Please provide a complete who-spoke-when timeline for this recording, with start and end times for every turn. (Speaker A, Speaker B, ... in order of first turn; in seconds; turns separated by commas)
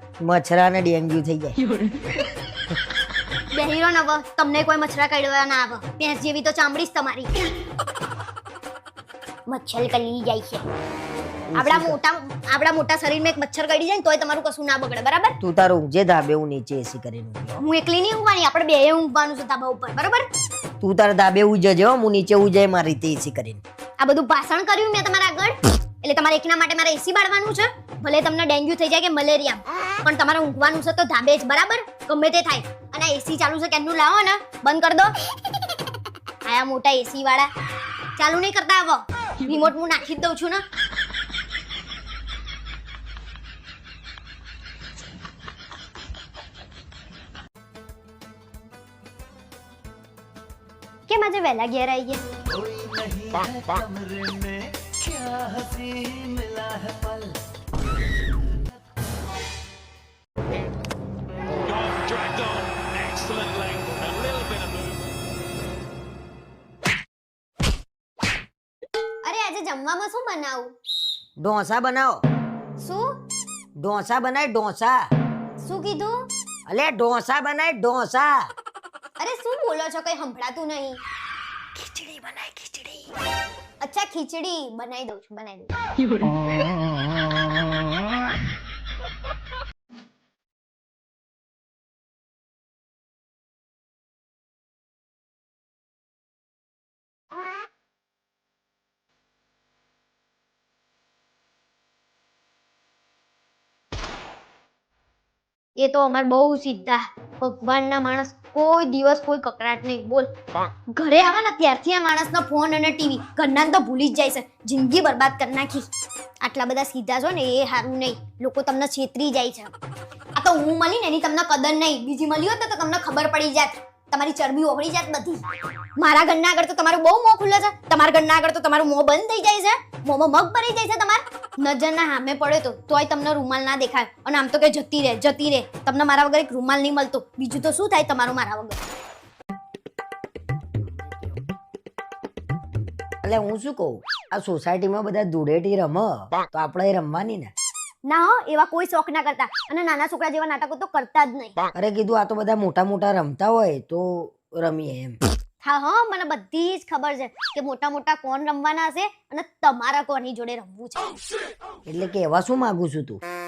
Speaker A: 0.2-1.6, Speaker B: 3.5-7.3, Speaker B: 9.5-10.6, Speaker A: 11.5-12.0, Speaker B: 11.6-15.3, Speaker A: 15.4-17.6, Speaker B: 17.6-20.3, Speaker A: 20.8-23.6, Speaker B: 24.0-35.1, Speaker B: 36.5-37.5, Speaker B: 38.2-40.6, Speaker B: 51.1-52.2, Speaker C: 52.6-57.3, Speaker C: 61.6-65.0, Speaker B: 69.2-70.7, Speaker A: 71.4-72.2, Speaker B: 72.8-73.1, Speaker A: 73.8-75.0, Speaker B: 75.6-76.3, Speaker A: 76.7-78.5, Speaker B: 79.2-81.0, Speaker A: 81.7-83.1, Speaker B: 83.8-85.7, Speaker B: 105.8-110.3, Speaker B: 110.9-115.9, Speaker B: 116.4-119.7, Speaker B: 120.3-125.4, Speaker B: 126.0-138.8, Speaker A: 143.2-147.5, Speaker B: 148.0-151.5, Speaker A: 151.7-155.2, Speaker B: 155.6-161.2, Speaker A: 161.8-163.2